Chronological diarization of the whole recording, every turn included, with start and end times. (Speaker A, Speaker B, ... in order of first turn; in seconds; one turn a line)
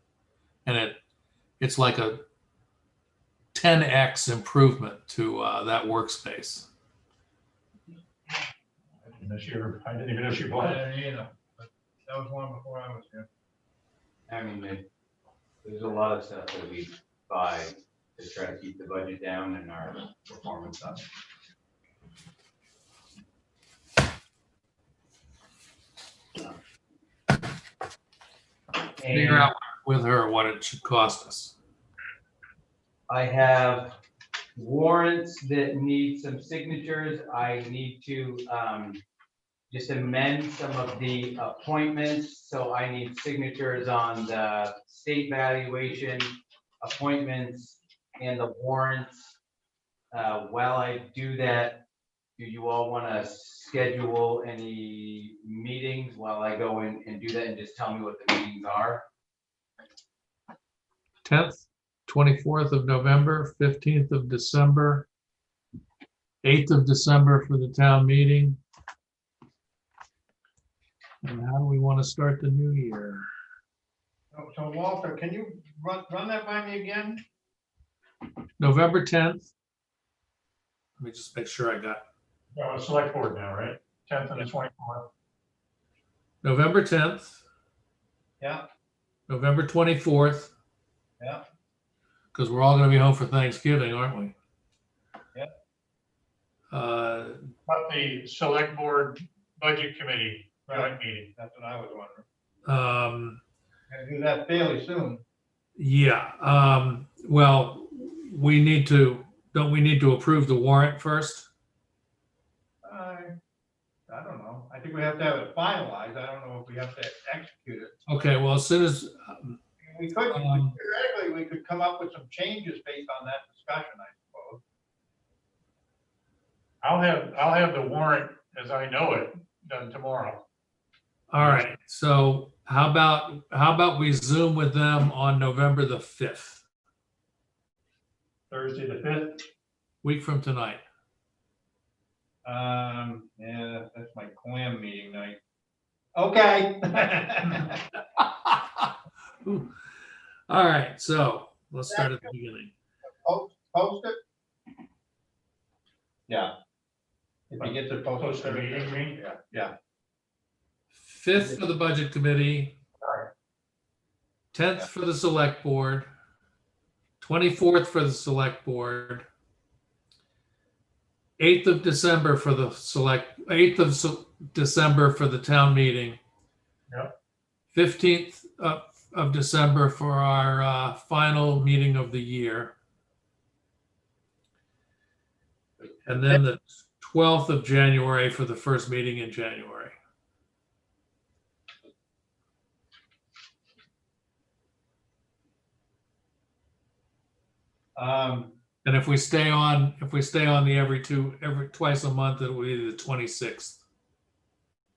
Speaker A: 0.7-1.0
Speaker A: 1.6-2.2
Speaker A: 3.5-6.7
Speaker B: 9.0-10.8
Speaker C: 10.6-13.3
Speaker D: 14.3-14.8
Speaker D: 15.6-21.1
Speaker D: 29.0-29.5
Speaker A: 29.1-31.6
Speaker D: 33.1-34.0
Speaker D: 34.6-39.0
Speaker D: 39.7-49.3
Speaker D: 50.1-51.8
Speaker D: 52.4-59.0
Speaker A: 61.2-65.1
Speaker A: 66.4-68.6
Speaker A: 71.2-73.3
Speaker C: 74.3-77.2
Speaker A: 78.6-79.5
Speaker A: 81.0-82.0
Speaker B: 82.5-85.1
Speaker A: 86.4-87.4
Speaker A: 89.3-90.5
Speaker A: 92.3-94.3
Speaker A: 96.7-97.5
Speaker B: 97.7-101.3
Speaker C: 100.7-102.2
Speaker A: 102.7-103.4
Speaker C: 103.9-105.2
Speaker A: 105.8-111.5
Speaker C: 112.8-113.3
Speaker C: 114.1-118.0
Speaker A: 118.1-119.6
Speaker C: 119.8-124.6
Speaker A: 120.3-120.8
Speaker B: 126.8-130.4
Speaker A: 131.3-136.6
Speaker B: 131.4-131.7
Speaker B: 138.5-139.4
Speaker A: 140.0-140.8
Speaker C: 142.4-145.4
Speaker C: 146.2-147.8
Speaker A: 149.4-149.8
Speaker A: 150.5-152.7
Speaker C: 151.9-152.3
Speaker C: 153.2-154.2
Speaker C: 157.5-159.7
Speaker B: 157.6-159.2
Speaker A: 160.9-162.8
Speaker C: 161.3-161.6
Speaker A: 164.5-166.1
Speaker A: 167.2-169.3
Speaker A: 171.4-176.2
Speaker A: 177.7-182.8
Speaker A: 186.1-189.9
Speaker C: 198.0-198.6
Speaker A: 198.8-203.8